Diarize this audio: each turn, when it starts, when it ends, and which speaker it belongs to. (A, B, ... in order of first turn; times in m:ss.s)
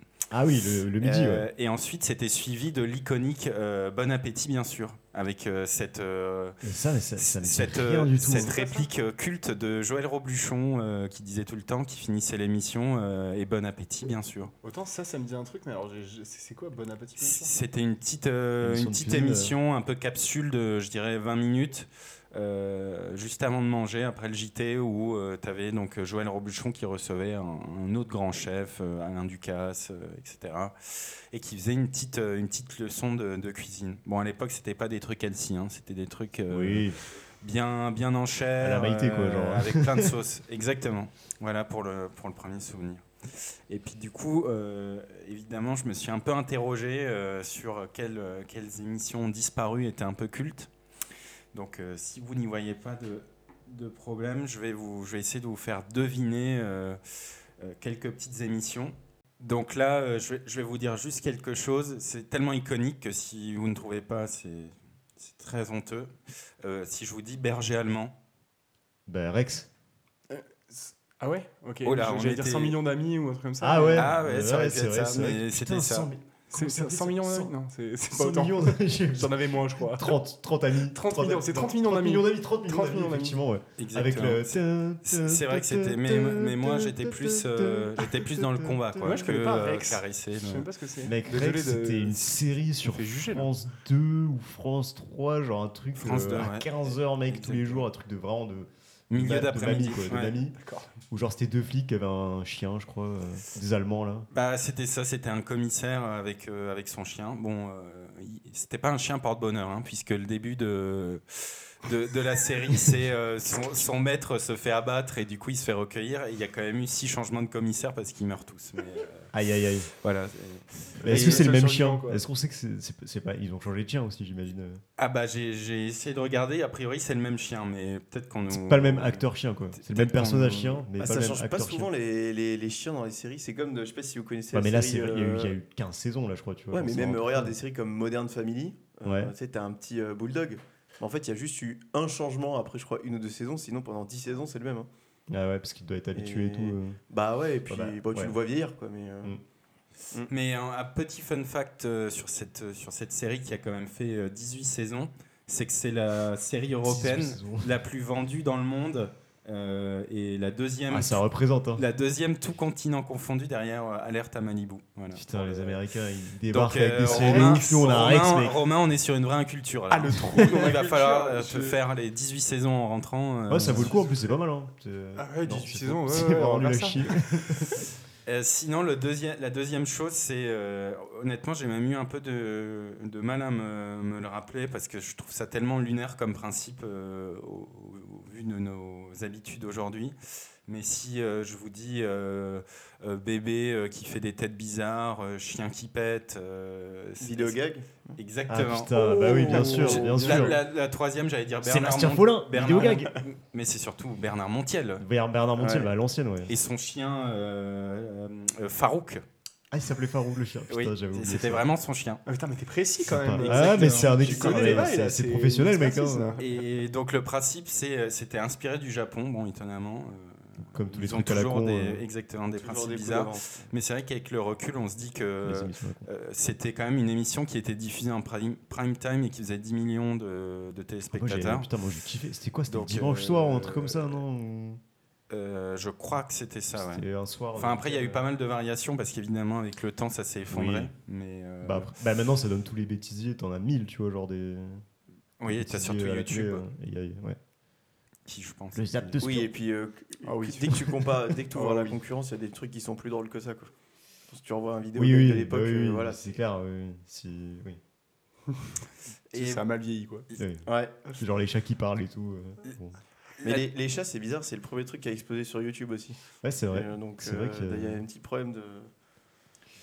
0:00.3-0:01.4 A
0:01.0-0:06.6 B
0:06.6-0:08.5 A
0:07.2-0:14.5 B
0:08.3-0:08.9 C
0:14.6-0:17.5 C
0:17.2-0:50.7 B
0:18.6-0:19.5 A
0:36.5-0:37.0 A
0:38.6-0:40.1 A
0:51.5-0:57.0 B
0:57.6-1:08.1 B
1:09.1-1:09.7 A
1:10.3-1:14.1 C
1:11.8-1:12.8 B
1:13.6-1:17.5 A
1:13.9-1:16.1 B
1:16.5-1:20.2 C
1:18.1-1:29.4 A
1:20.8-1:23.4 C
1:23.8-1:30.7 B
1:29.0-1:33.5 C
1:31.0-1:40.6 A
1:35.9-1:37.9 B
1:39.1-1:40.4 B
1:40.5-1:40.9 C
1:41.1-1:44.3 A
1:44.3-1:59.3 B
1:59.3-1:59.9 A
1:59.9-2:01.5 B
2:01.0-2:04.8 A
2:01.0-2:02.2 C
2:05.0-2:10.8 B
2:08.5-2:11.9 A
2:11.0-2:15.5 D
2:14.5-2:17.5 A
2:16.7-2:24.9 D
2:19.0-2:19.3 A
2:25.3-2:27.0 A
2:26.1-2:29.3 D
2:27.7-2:28.3 A
2:30.3-2:41.2 B
2:36.8-2:37.7 A
2:40.9-2:41.8 A
2:41.7-2:45.8 B
2:45.1-2:48.6 A
2:46.5-2:54.0 B
2:47.1-2:47.6 C
2:49.9-2:51.8 C
2:53.5-2:57.8 A
2:53.6-2:54.3 C
2:55.2-2:57.4 C
2:58.2-3:17.6 B
3:17.2-3:18.2 D
3:18.2-3:25.0 B
3:18.5-3:20.6 A
3:19.2-3:20.6 C
3:21.6-3:23.2 A
3:25.0-3:26.5 A
3:26.5-3:29.2 B
3:29.7-3:31.6 A
3:30.7-3:32.2 B
3:32.2-3:36.5 C
3:33.1-3:36.4 A
3:33.5-3:34.8 B
3:36.4-3:51.7 B
3:40.7-3:42.0 A
3:42.6-3:43.7 D
3:45.4-3:46.1 A
3:51.1-3:54.8 A
3:52.7-3:54.2 B
3:55.3-4:01.9 B
3:56.7-3:58.2 A
4:00.5-4:00.9 A
4:01.6-4:04.8 A
4:05.4-4:06.6 B
4:05.5-4:07.4 A
4:08.2-4:09.2 B
4:08.7-4:09.5 A
4:09.2-4:13.7 D
4:10.2-4:10.9 C
4:11.5-4:12.0 C
4:14.3-4:16.4 D
4:15.0-4:17.8 A
4:19.3-4:20.3 C
4:19.3-4:19.6 B
4:20.4-4:23.0 A
4:20.6-4:21.0 D
4:23.4-4:23.6 B
4:23.4-4:28.9 D
4:26.4-4:28.0 A